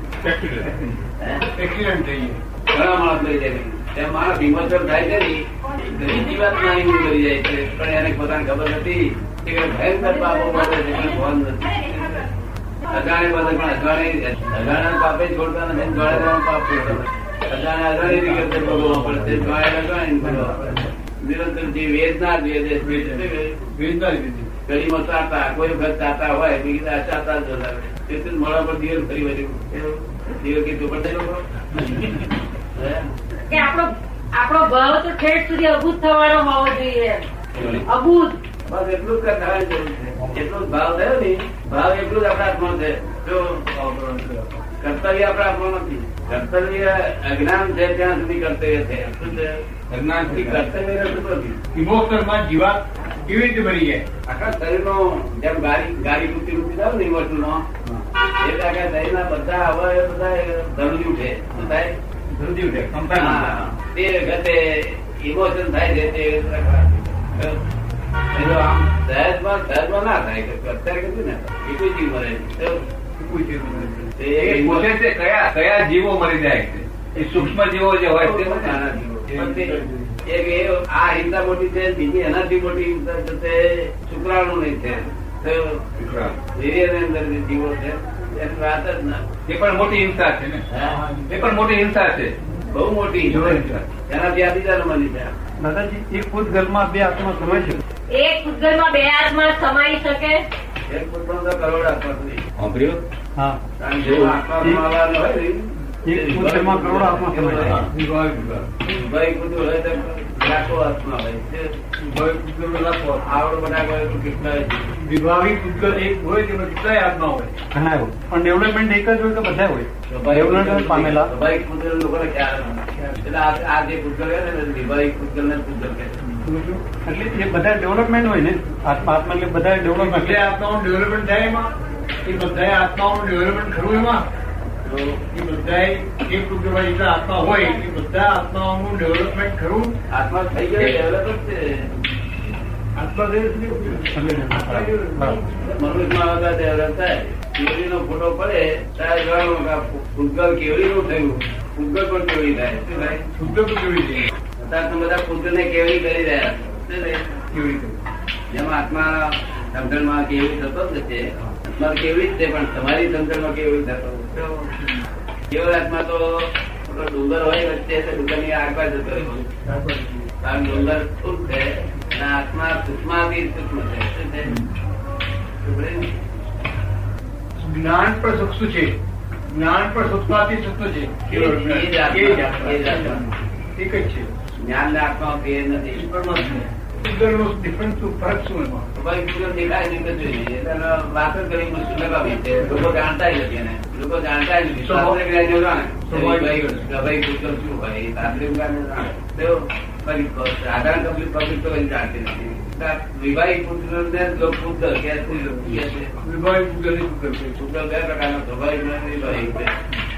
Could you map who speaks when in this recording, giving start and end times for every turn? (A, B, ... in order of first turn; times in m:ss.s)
0:00.2-0:00.9 A
0:01.2-0:01.5 B
0:01.5-0:02.4 C
0:02.7-0:12.3 B
0:12.9-0:23.7 B
0:18.2-0:19.4 C
0:20.4-0:20.8 C
0:22.8-0:24.5 C
0:24.7-0:33.1 B
0:33.5-0:38.4 D
0:37.5-0:37.8 B
0:38.6-0:43.7 B
0:43.7-0:44.5 C
0:44.8-0:49.6 B
0:49.9-0:50.6 A
0:50.2-0:51.6 B
0:51.7-0:54.0 C
0:54.3-0:57.7 B
0:58.4-1:01.9 B
1:02.3-1:03.7 A
1:03.1-1:07.6 B
1:08.3-1:12.8 B
1:13.2-1:14.7 C
1:14.2-1:14.9 B
1:14.5-1:18.8 A
1:18.2-1:25.8 B
1:19.3-1:20.1 C
1:26.0-1:26.4 A
1:26.5-1:29.2 B
1:29.5-1:30.6 A
1:30.7-1:31.0 B
1:30.9-1:31.4 C
1:31.3-1:32.3 A
1:32.7-1:35.3 B
1:33.3-1:33.8 C
1:33.3-1:33.8 A
1:35.6-1:37.8 E
1:38.1-1:40.4 D
1:40.9-1:42.4 B
1:42.6-1:43.0 A
1:43.4-1:44.8 E
1:43.8-1:47.9 B
1:46.0-1:47.8 E
1:47.7-1:48.7 C
1:48.8-1:51.7 B
1:52.0-1:53.4 C
1:53.2-1:54.9 B
1:55.0-1:57.6 C
1:57.7-2:01.3 E
2:00.1-2:06.2 B
2:06.3-2:06.8 C
2:07.1-2:10.4 E
2:10.0-2:11.7 C
2:12.2-2:14.2 C
2:14.8-2:15.2 B
2:15.3-2:19.9 C
2:20.1-2:21.9 B
2:23.0-2:25.4 C
2:24.1-2:25.4 E
2:25.5-2:33.2 B
2:33.3-2:34.3 C
2:34.6-2:37.4 B
2:37.5-2:38.0 C
2:38.5-2:44.7 B
2:45.5-2:49.5 B
2:49.5-2:50.3 C
2:50.4-2:54.6 B
2:55.6-2:56.3 B
2:57.6-2:59.0 C
2:59.5-3:04.3 C
3:01.3-3:03.3 B
3:04.6-3:06.1 B
3:05.9-3:08.9 C
3:09.0-3:26.2 B
3:14.8-3:15.2 C
3:16.1-3:16.9 C
3:25.3-3:27.6 C
3:27.6-3:29.7 B